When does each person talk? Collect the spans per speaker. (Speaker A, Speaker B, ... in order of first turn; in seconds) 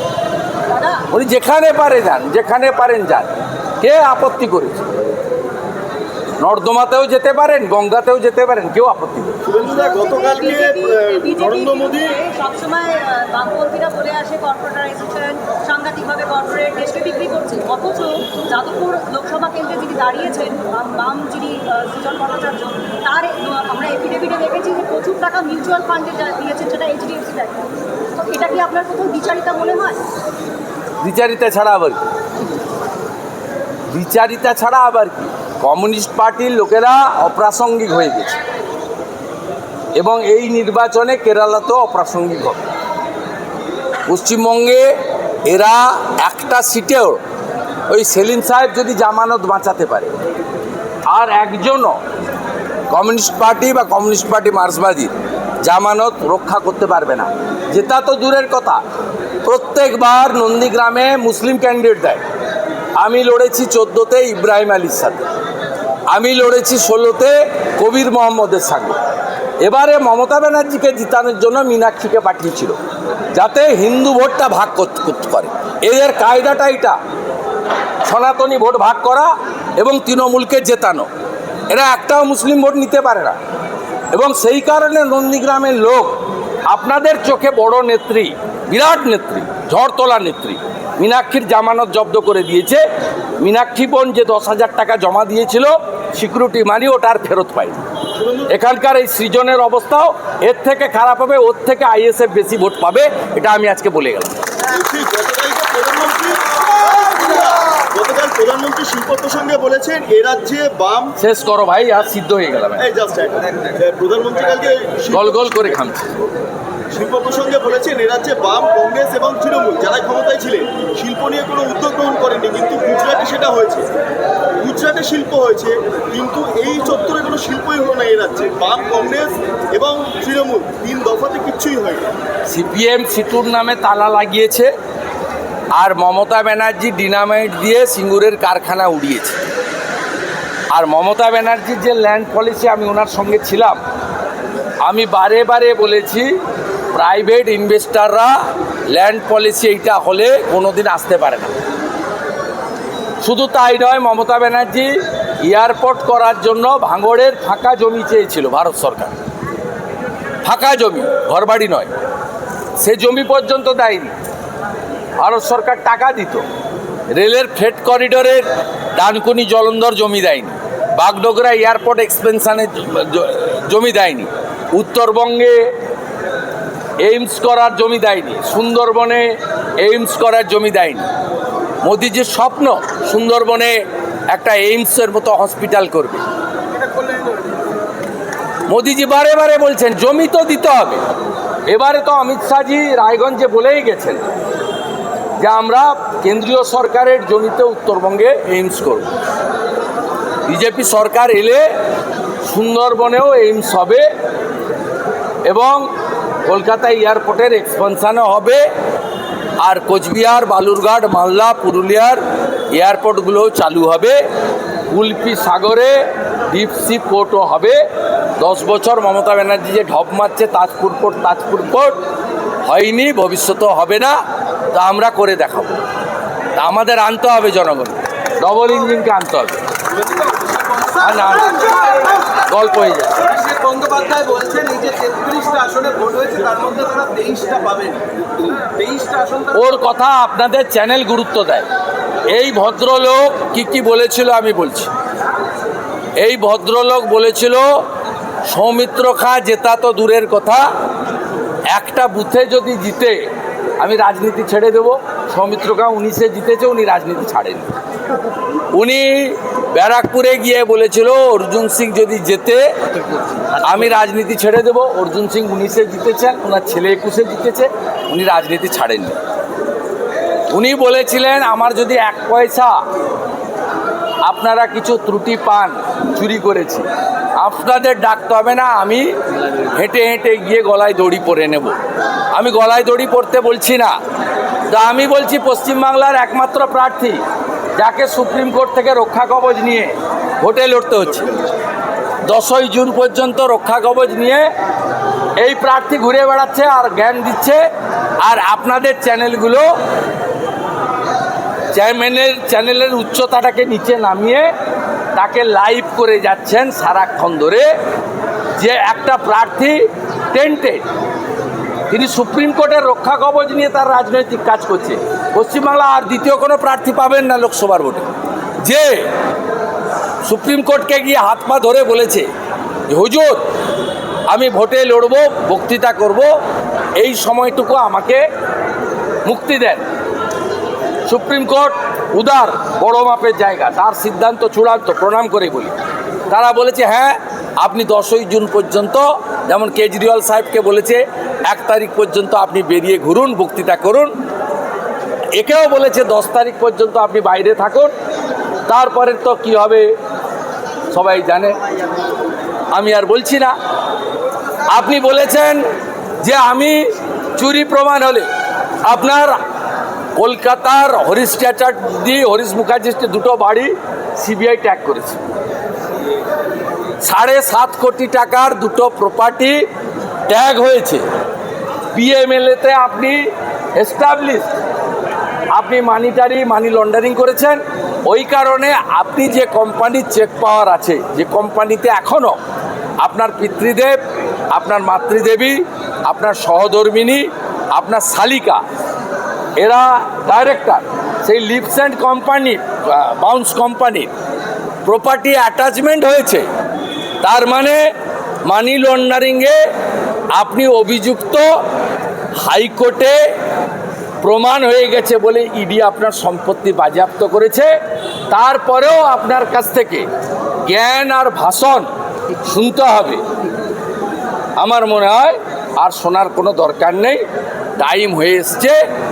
Speaker A: 0.7-1.1, 9.6-30.0
Speaker B: 1.1-4.9, 6.4-9.4, 31.0-32.0, 33.9-38.4, 39.9-42.6, 44.1-44.9, 45.4-47.2, 47.9-50.1, 51.1-52.0, 52.9-58.8, 59.4-62.2, 63.0-65.2, 66.1-69.0, 69.6-72.8, 73.3-77.0, 78.0-81.1, 81.7-83.4, 84.1-92.8, 93.4-97.9, 98.5-104.3, 111.2-112.9, 115.1-116.1, 132.5-134.7, 135.7-139.4, 140.7-143.8, 144.8-146.3, 146.9-151.6, 153.2-159.1, 160.4-161.9, 162.8-164.1, 165.2-166.4, 167.1-175.7, 177.0-181.1, 181.8-186.2, 188.7-191.0, 191.7-194.2, 195.4-199.1, 200.4-201.7, 202.4-204.1, 205.4-205.9, 206.4-208.6, 209.6-214.2, 214.9-217.8, 218.4-222.0, 222.6-224.2, 224.7-225.8, 226.6-229.6, 230.9-233.4, 239.5-241.7, 242.2-244.9, 246.2-247.8, 248.4-250.7, 251.7-253.3, 253.8-257.7, 258.7-262.7, 263.6-269.2, 270.5-272.8, 274.2-281.8, 282.3-283.9, 284.7-287.2, 287.8-291.4, 292.2-294.5, 295.4-297.6, 298.2-299.7, 301.7-304.5, 305.1-307.7, 308.5-310.8, 311.9-319.1, 320.2-322.3, 322.9-323.5, 324.3-326.4, 326.9-328.2, 329.2-329.8, 331.1-335.8, 336.3-344.1, 345.3-347.9, 348.6-349.9, 350.9-351.6, 352.7-353.6, 354.7-355.6, 356.2-358.3, 358.8-359.4, 360.1-365.2, 367.0-369.6, 370.3-371.0, 371.9-374.5, 375.5-382.4, 383.0-388.6, 389.6-394.1, 394.8-396.5, 397.2-397.9, 398.4-399.6, 400.3-401.6, 402.3-403.3, 404.2-407.7, 408.3-410.1, 410.6-413.2, 414.6-417.2, 417.8-418.8
Speaker C: 9.4-12.1, 98.2-98.5, 104.6-111.1, 112.8-115.7, 116.9-123.9, 124.6-132.1
Speaker D: 233.3-239.5